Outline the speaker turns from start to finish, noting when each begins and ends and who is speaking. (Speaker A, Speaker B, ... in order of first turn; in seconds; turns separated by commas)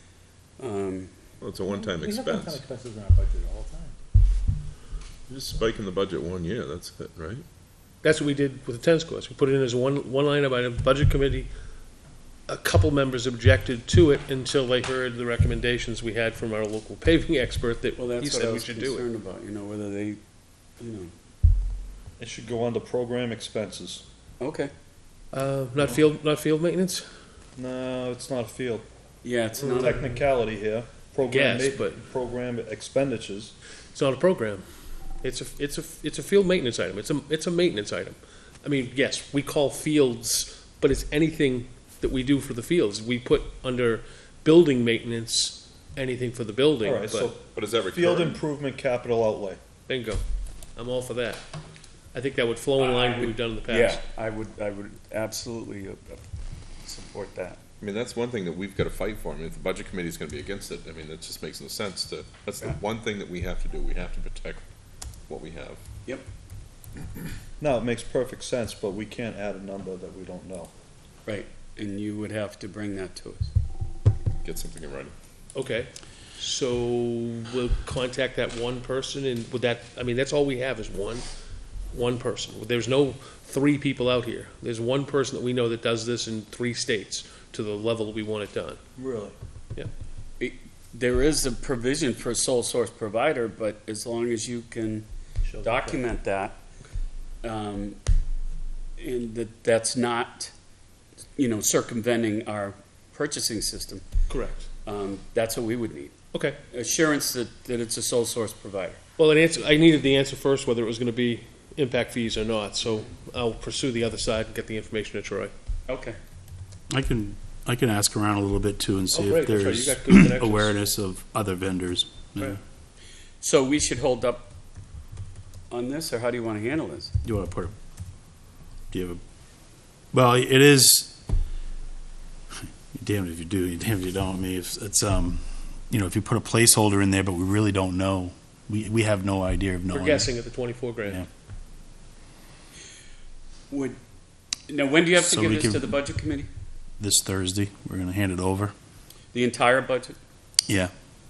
Speaker A: 0.6-1.1, Speaker B: 1.4-2.6, Speaker C: 1.7-4.0, Speaker B: 5.3-7.5, Speaker D: 8.0-11.5, Speaker D: 12.5-19.1, Speaker A: 18.0-20.2, Speaker A: 20.8-21.1, Speaker E: 22.2-24.0, Speaker A: 24.4-24.7, Speaker D: 25.3-27.1, Speaker E: 27.6-28.8, Speaker A: 29.2-30.1, Speaker D: 29.6-29.9, Speaker E: 29.7-33.5, Speaker D: 31.3-32.0, Speaker D: 33.9-34.7, Speaker D: 35.2-47.3, Speaker E: 46.8-49.6, Speaker B: 47.5-48.4, Speaker D: 49.9-50.2, Speaker D: 50.8-51.5, Speaker D: 52.1-54.0, Speaker A: 52.8-56.2, Speaker A: 56.8-57.6, Speaker B: 57.8-64.7, Speaker B: 65.3-65.8, Speaker E: 67.6-70.7, Speaker A: 71.2-73.5, Speaker B: 74.4-75.1, Speaker D: 75.5-81.2, Speaker D: 81.9-88.8, Speaker E: 89.0-89.3, Speaker A: 90.4-95.1, Speaker C: 95.4-96.0, Speaker A: 95.6-96.6, Speaker A: 97.4-98.0, Speaker A: 99.0-100.5, Speaker A: 101.4-104.0, Speaker D: 104.3-104.7, Speaker A: 104.8-106.1, Speaker A: 106.7-109.0, Speaker D: 109.2-115.5, Speaker A: 115.9-116.2, Speaker F: 116.9-122.6, Speaker D: 119.1-120.8, Speaker A: 123.4-124.5, Speaker A: 125.7-127.1, Speaker F: 127.2-127.7, Speaker F: 128.9-129.2, Speaker F: 130.1-131.2, Speaker F: 132.7-140.3, Speaker D: 139.9-141.2, Speaker A: 143.7-144.0, Speaker A: 144.7-146.5, Speaker F: 145.2-146.0, Speaker F: 147.0-148.7, Speaker A: 149.3-150.2